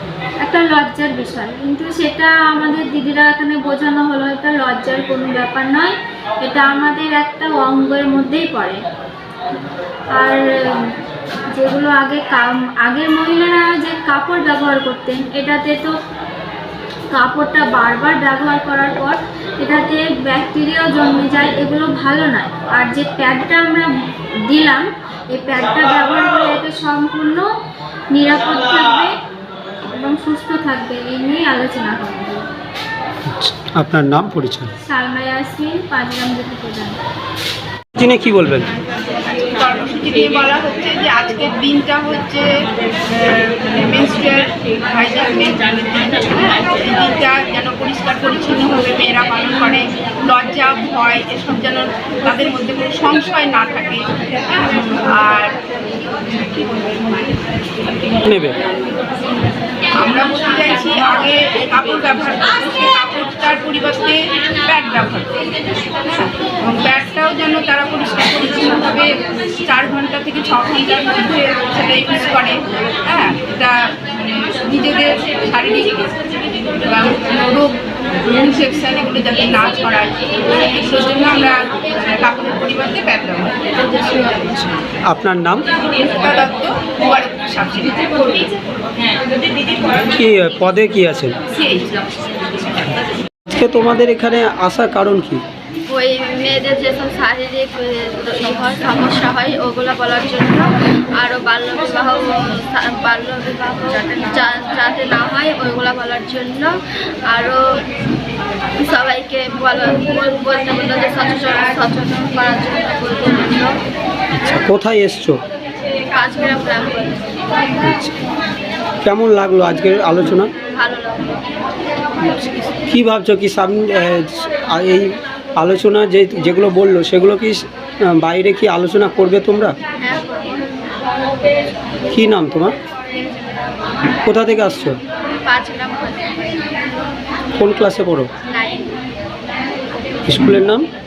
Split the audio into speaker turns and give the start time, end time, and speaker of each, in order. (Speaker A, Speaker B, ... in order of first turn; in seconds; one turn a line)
Speaker A: 0.4-8.8
Speaker A: 10.1-11.0
Speaker A: 11.5-15.9
Speaker A: 17.1-27.5
Speaker A: 28.1-29.1
Speaker A: 29.9-32.5
Speaker B: 33.2-34.7
Speaker A: 34.8-37.0
Speaker B: 38.0-38.7
Speaker C: 39.5-55.6
Speaker B: 58.2-58.6
Speaker C: 59.9-65.4
Speaker C: 66.0-76.1
Speaker C: 76.8-84.7
Speaker B: 85.0-85.7
Speaker C: 86.0-88.4
Speaker B: 89.9-91.4
Speaker C: 91.5-92.0
Speaker B: 93.5-95.4
Speaker D: 95.8-106.8
Speaker D: 107.3-107.8
Speaker D: 108.8-113.8
Speaker B: 114.3-115.4
Speaker D: 116.1-117.3
Speaker B: 117.8-118.1
Speaker B: 119.0-120.5
Speaker D: 120.7-121.5
Speaker B: 122.2-129.8
Speaker D: 130.0-130.7
Speaker B: 132.1-132.8
Speaker B: 134.2-135.0
Speaker D: 135.4-136.8
Speaker B: 137.6-138.3
Speaker D: 138.5-138.9
Speaker B: 140.3-140.9